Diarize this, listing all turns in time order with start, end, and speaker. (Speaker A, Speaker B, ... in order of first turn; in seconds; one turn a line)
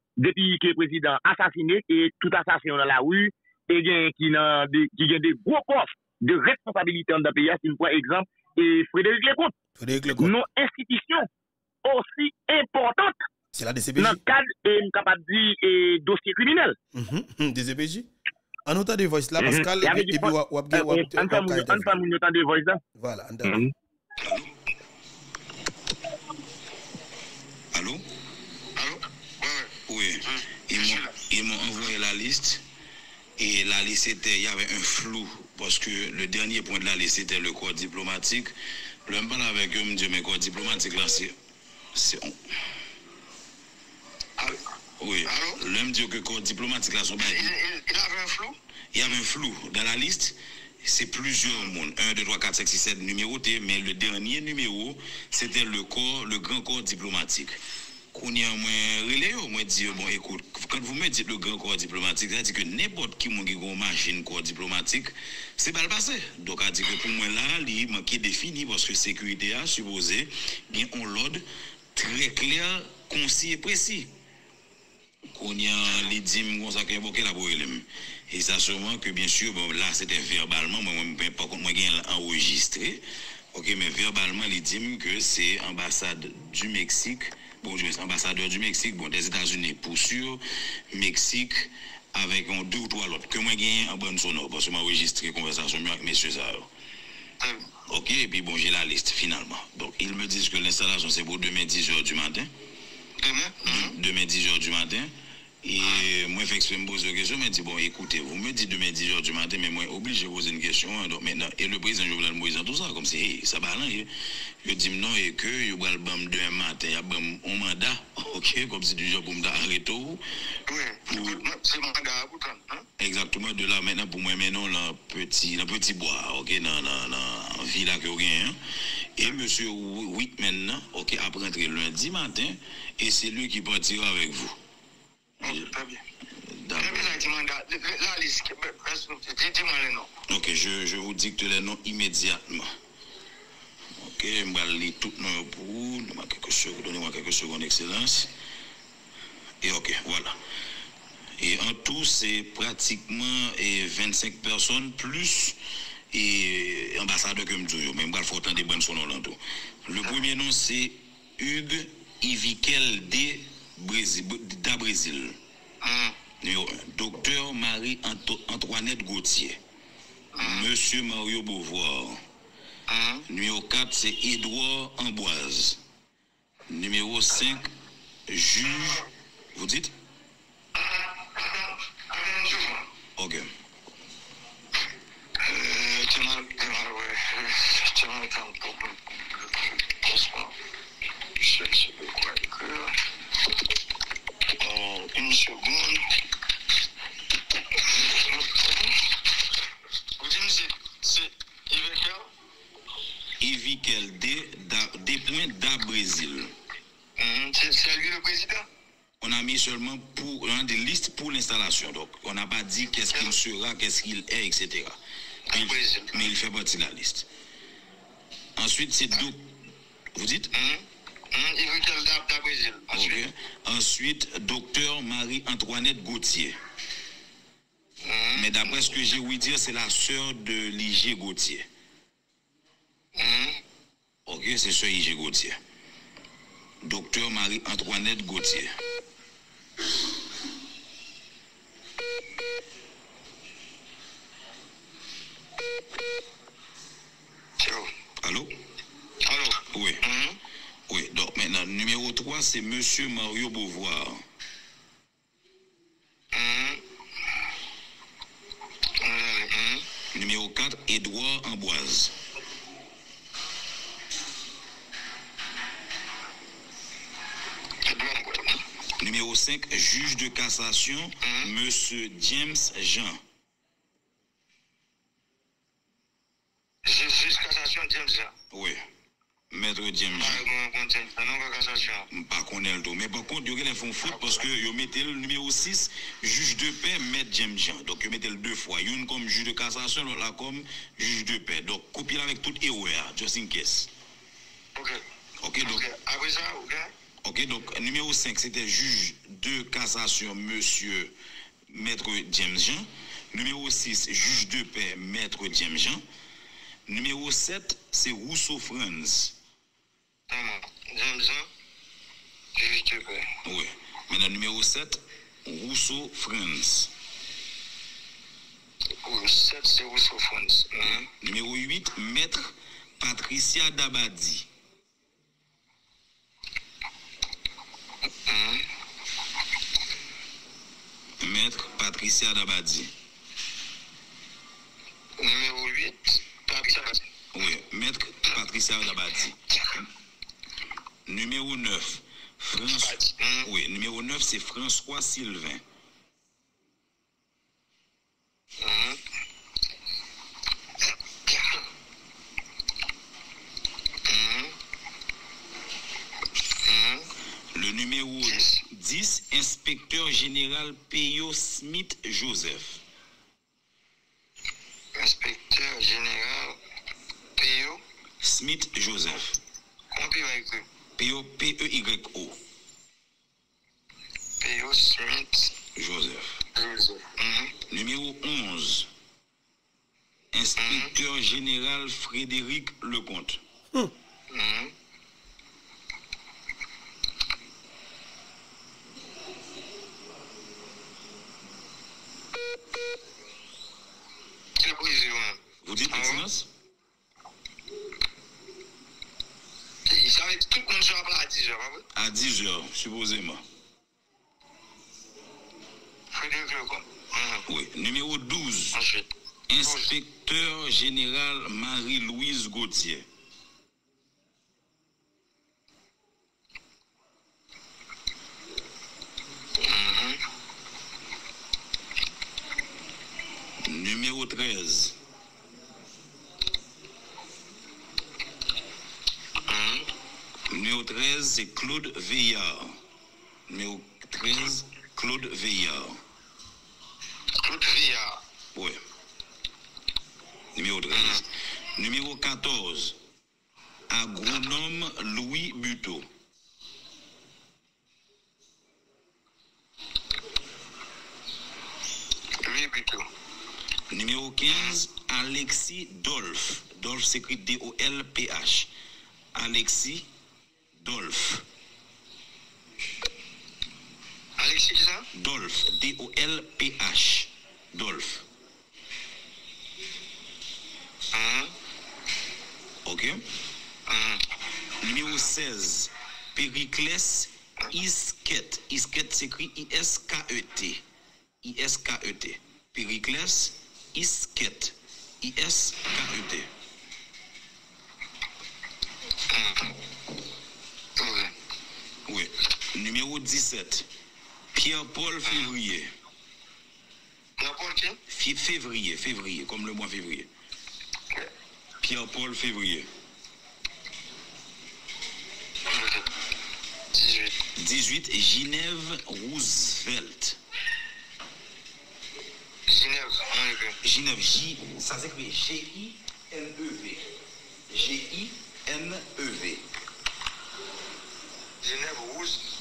Speaker A: 0.2-9.5
Speaker B: 9.8-10.3
Speaker A: 10.2-11.3
Speaker A: 11.8-13.2
Speaker B: 13.5-14.2
Speaker A: 14.0-16.8
Speaker B: 16.9-18.1
Speaker B: 18.7-22.0
Speaker A: 19.4-22.8
Speaker B: 23.0-23.6
Speaker A: 23.4-23.7
Speaker C: 27.7-28.0
Speaker D: 28.8-29.7
Speaker C: 29.9-32.6
Speaker D: 30.3-31.2
Speaker C: 33.4-38.5
Speaker C: 39.0-41.4
Speaker C: 41.9-42.3
Speaker C: 45.0-47.5
Speaker D: 45.3-45.6
Speaker D: 47.2-48.6
Speaker C: 48.9-57.6
Speaker C: 58.1-71.4
Speaker C: 72.0-74.1
Speaker C: 75.3-96.7
Speaker C: 97.9-102.5
Speaker D: 103.2-104.0
Speaker C: 103.7-105.1
Speaker C: 105.6-114.1
Speaker C: 114.6-120.2
Speaker D: 120.7-122.9
Speaker C: 121.1-121.4
Speaker C: 123.0-128.6
Speaker C: 129.2-134.6
Speaker D: 135.4-136.0
Speaker C: 135.4-135.7
Speaker C: 136.5-137.2
Speaker D: 136.8-140.1
Speaker C: 140.3-142.7
Speaker C: 144.0-148.3
Speaker C: 149.6-150.3
Speaker C: 151.4-155.6
Speaker C: 156.1-165.4
Speaker D: 165.8-166.2
Speaker C: 166.4-169.6
Speaker D: 170.4-170.7
Speaker C: 170.4-172.2
Speaker D: 172.9-173.2
Speaker C: 173.3-175.8
Speaker C: 176.7-177.7
Speaker C: 178.3-179.0
Speaker D: 178.7-179.0
Speaker C: 179.5-179.9
Speaker D: 180.8-182.9
Speaker C: 183.2-183.5
Speaker D: 185.4-189.0
Speaker D: 189.7-190.6
Speaker D: 191.4-193.0
Speaker D: 194.6-196.0
Speaker D: 197.8-199.0
Speaker D: 200.2-202.3
Speaker C: 203.4-206.5
Speaker D: 207.2-208.7
Speaker C: 209.2-215.0
Speaker D: 213.1-213.3
Speaker D: 215.5-216.3
Speaker C: 215.5-217.3
Speaker C: 218.6-219.5
Speaker C: 220.1-220.5
Speaker D: 220.5-223.2
Speaker C: 222.9-226.6
Speaker D: 228.0-228.7
Speaker C: 228.4-231.7
Speaker D: 233.2-233.6
Speaker C: 234.3-235.6
Speaker C: 236.8-238.7
Speaker D: 247.6-247.9
Speaker C: 248.2-248.5
Speaker D: 249.2-250.4
Speaker C: 249.7-250.0
Speaker C: 250.9-254.2
Speaker D: 256.3-256.8
Speaker D: 259.0-259.9
Speaker C: 260.1-262.1
Speaker D: 267.8-268.6
Speaker C: 269.0-273.2
Speaker D: 271.2-271.5
Speaker D: 276.9-278.3
Speaker C: 278.5-278.8
Speaker C: 279.5-280.4
Speaker D: 280.2-282.1
Speaker C: 282.1-293.9
Speaker D: 284.1-284.4
Speaker D: 294.8-295.0
Speaker C: 295.4-295.9
Speaker D: 295.6-296.9
Speaker C: 297.2-301.1
Speaker C: 301.7-306.0
Speaker C: 306.9-309.4
Speaker D: 310.3-311.5
Speaker D: 312.6-313.3
Speaker C: 313.4-316.9
Speaker D: 319.0-321.1
Speaker C: 321.2-324.5
Speaker D: 328.3-328.7
Speaker C: 331.2-332.9
Speaker D: 335.2-337.0
Speaker C: 337.3-339.4
Speaker C: 341.1-345.6
Speaker D: 342.7-343.5
Speaker D: 348.6-349.0
Speaker D: 351.3-351.6
Speaker D: 354.1-354.5
Speaker D: 356.6-357.1
Speaker C: 357.5-362.8
Speaker D: 358.3-358.6
Speaker D: 365.0-366.6
Speaker D: 367.4-367.8
Speaker C: 368.2-369.4
Speaker D: 369.9-370.6
Speaker C: 371.0-372.4
Speaker D: 374.4-375.6
Speaker C: 375.8-376.4
Speaker D: 376.6-377.6
Speaker C: 377.7-378.9
Speaker C: 380.3-383.4
Speaker D: 380.6-381.0
Speaker D: 384.3-384.7
Speaker D: 394.6-396.3
Speaker C: 395.6-396.5
Speaker D: 399.9-401.8
Speaker C: 401.9-403.4
Speaker D: 406.1-407.4
Speaker C: 407.5-408.8
Speaker D: 408.7-409.1
Speaker C: 409.5-413.1
Speaker D: 409.6-409.9
Speaker D: 419.6-420.2
Speaker C: 423.6-425.0
Speaker D: 429.5-429.9
Speaker C: 430.5-432.8
Speaker C: 433.5-436.0
Speaker D: 437.4-438.2
Speaker C: 438.5-438.8
Speaker C: 440.6-441.3
Speaker D: 440.9-441.2
Speaker C: 441.8-443.0
Speaker C: 443.9-446.1
Speaker D: 452.4-453.1
Speaker C: 453.9-458.7
Speaker D: 454.5-454.8
Speaker C: 459.3-460.1
Speaker C: 460.8-461.4
Speaker D: 464.4-465.1
Speaker C: 465.1-468.2
Speaker D: 471.1-471.5
Speaker C: 472.9-473.2
Speaker D: 473.9-474.2
Speaker C: 474.8-480.8
Speaker C: 481.4-486.5
Speaker D: 489.3-489.7
Speaker D: 491.0-491.3
Speaker C: 492.1-493.9
Speaker C: 494.5-495.9
Speaker D: 495.3-495.5
Speaker D: 497.4-498.0
Speaker C: 498.1-500.3
Speaker C: 501.8-502.9
Speaker D: 505.7-506.1
Speaker D: 506.9-507.4
Speaker C: 507.6-510.4
Speaker D: 512.7-513.8
Speaker C: 513.8-517.1
Speaker C: 517.7-519.6
Speaker D: 521.6-522.5